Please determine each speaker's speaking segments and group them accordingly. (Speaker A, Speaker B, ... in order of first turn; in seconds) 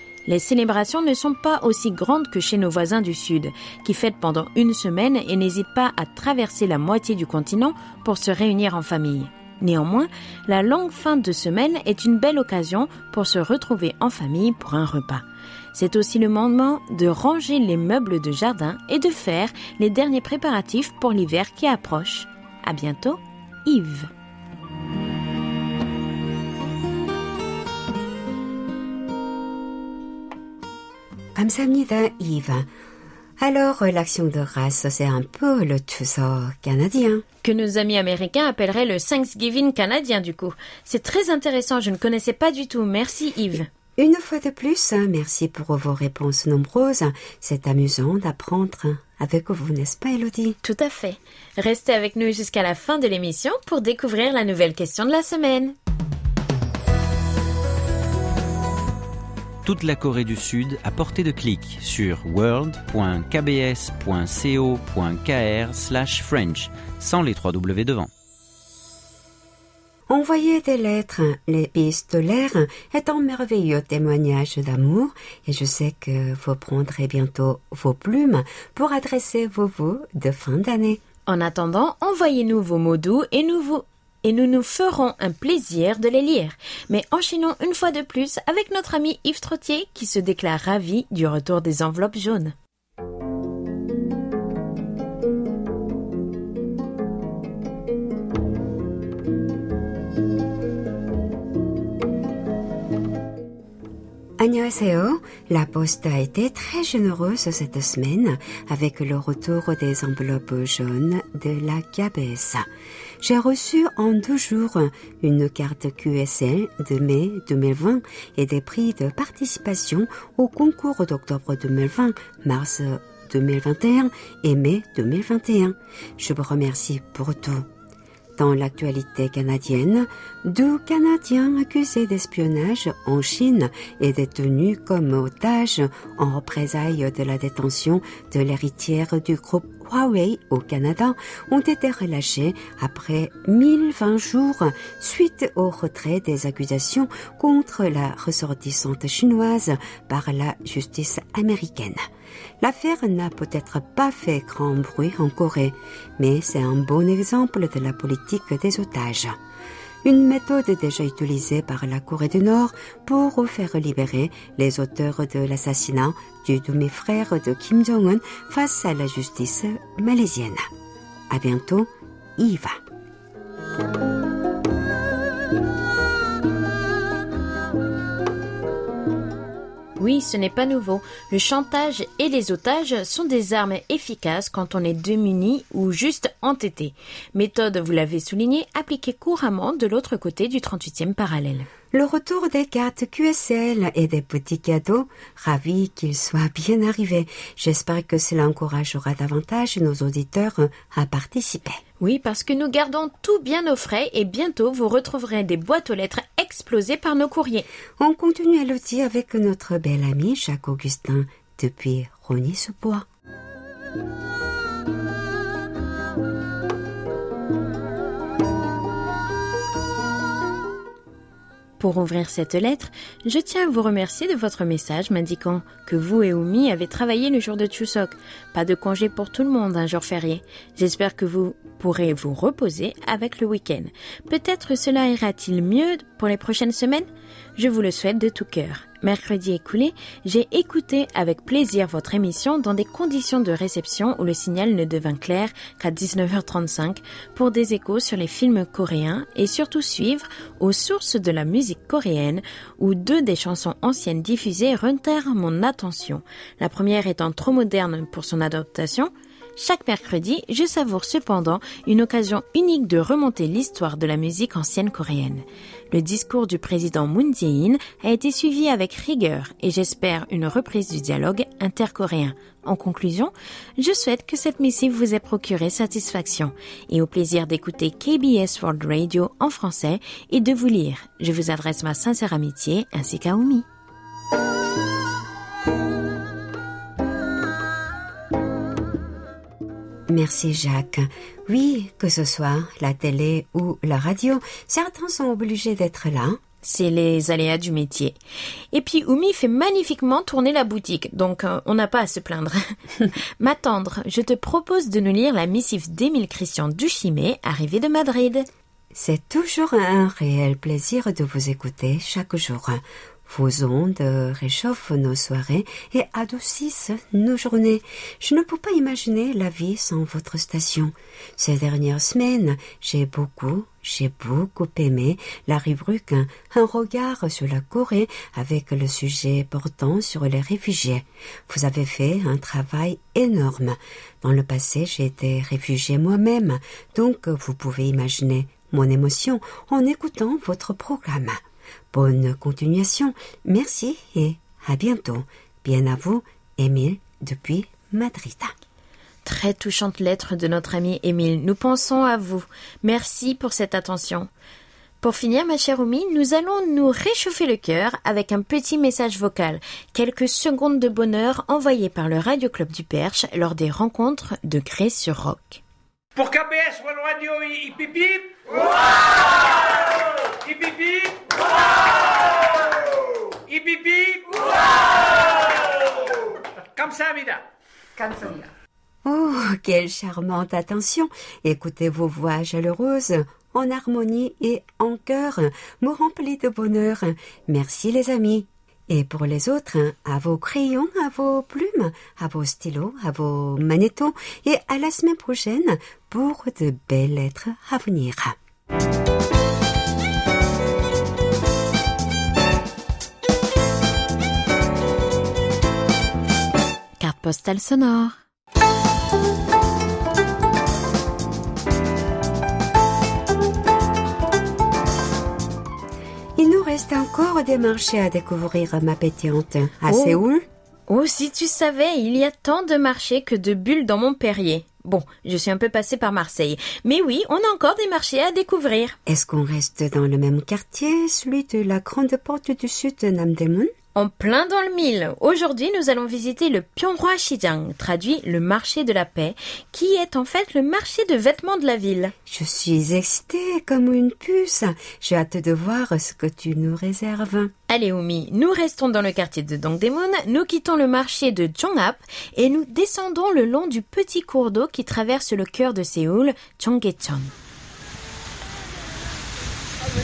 Speaker A: 0.3-24.1, 37.4-43.7, 50.6-55.8, 81.3-92.5, 180.0-191.7, 202.0-207.7, 221.8-283.6, 296.6-298.1, 298.7-302.7, 303.4-308.5, 349.2-354.3, 355.0-365.6, 407.0-408.2, 419.9-420.2, 420.9-429.0, 433.9-442.1, 447.7-457.3
Speaker B: 31.4-32.7, 33.4-37.2, 44.0-50.6, 70.1-81.0, 104.4-112.7, 113.2-127.7, 128.4-152.1, 152.6-159.4, 160.0-170.7, 171.3-172.8, 191.9-201.8, 208.0-213.1, 290.1-296.4, 308.9-341.4, 341.9-348.5, 379.0-398.4, 416.4-420.4, 429.1-433.7, 442.3-447.5
Speaker C: 59.6-68.1
Speaker D: 366.2-369.6, 370.2-372.1, 373.5-377.4, 378.0-378.5